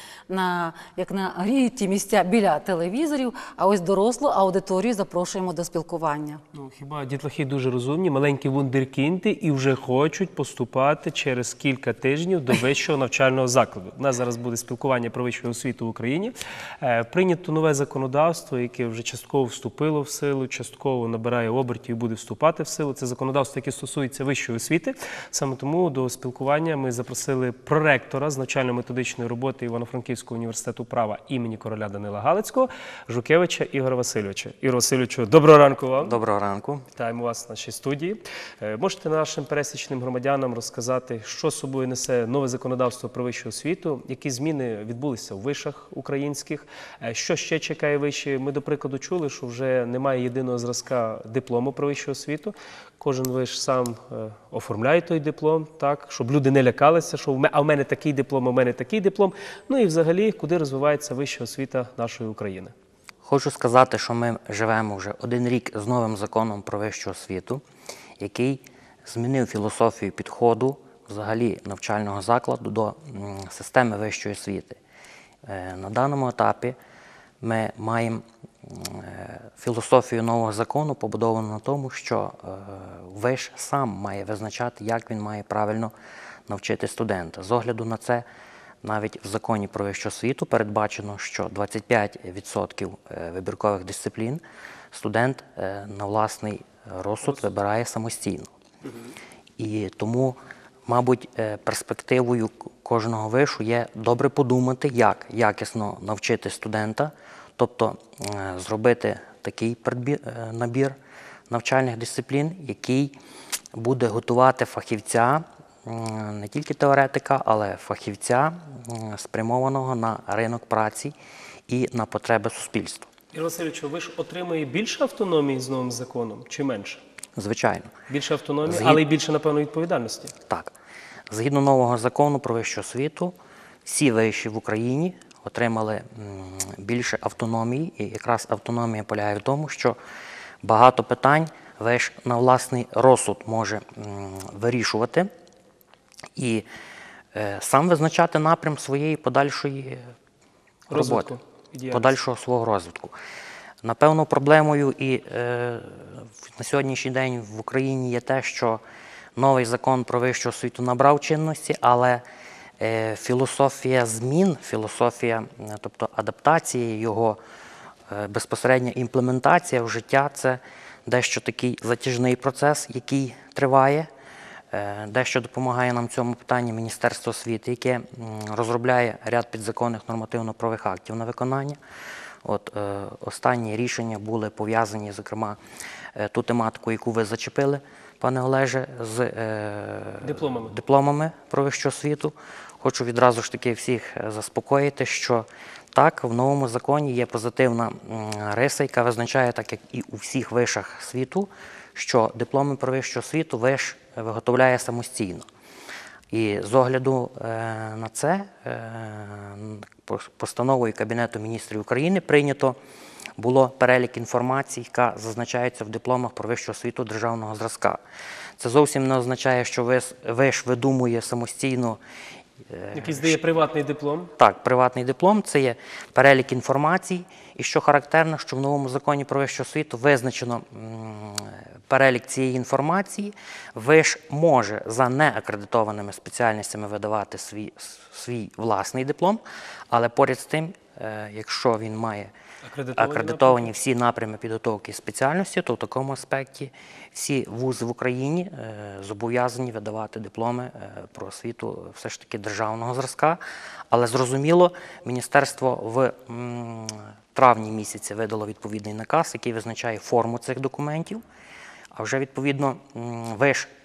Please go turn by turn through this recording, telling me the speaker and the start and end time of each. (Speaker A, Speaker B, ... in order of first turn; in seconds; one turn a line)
Speaker A: 0.3-6.4
Speaker B: 6.5-36.2
Speaker C: 36.0-36.9
Speaker B: 36.9-62.7
Speaker C: 63.2-67.6
Speaker C: 68.2-74.8
Speaker C: 75.5-76.8
Speaker C: 77.4-85.9
Speaker C: 86.5-88.2
Speaker C: 88.8-94.4
Speaker C: 94.9-98.5
Speaker C: 99.6-111.0
Speaker C: 111.5-113.1
Speaker C: 113.8-121.1
Speaker C: 121.7-123.1
Speaker B: 123.3-127.0
Speaker C: 127.4-127.9
Speaker B: 128.1-130.3
Speaker C: 128.7-129.0
Speaker C: 130.5-130.7
Speaker C: 131.3-133.3
Speaker C: 133.8-140.0
Speaker C: 140.6-145.3
Speaker C: 146.4-146.7
Speaker C: 147.3-150.0
Speaker B: 150.9-152.1
Speaker C: 150.9-151.3
Speaker C: 151.9-153.1
Speaker C: 153.8-158.8
Speaker C: 159.4-162.2
Speaker C: 162.8-167.4
Speaker C: 168.1-174.1
Speaker C: 174.7-181.8
Speaker C: 182.4-185.6
Speaker C: 186.2-205.5
Speaker B: 190.2-190.7
Speaker C: 206.3-212.8
Speaker C: 213.4-218.0
Speaker C: 218.6-222.0
Speaker C: 222.7-223.4
Speaker B: 222.9-224.3
Speaker C: 224.4-242.3
Speaker B: 242.6-243.7
Speaker C: 242.9-253.4
Speaker C: 253.9-261.2
Speaker C: 261.9-263.7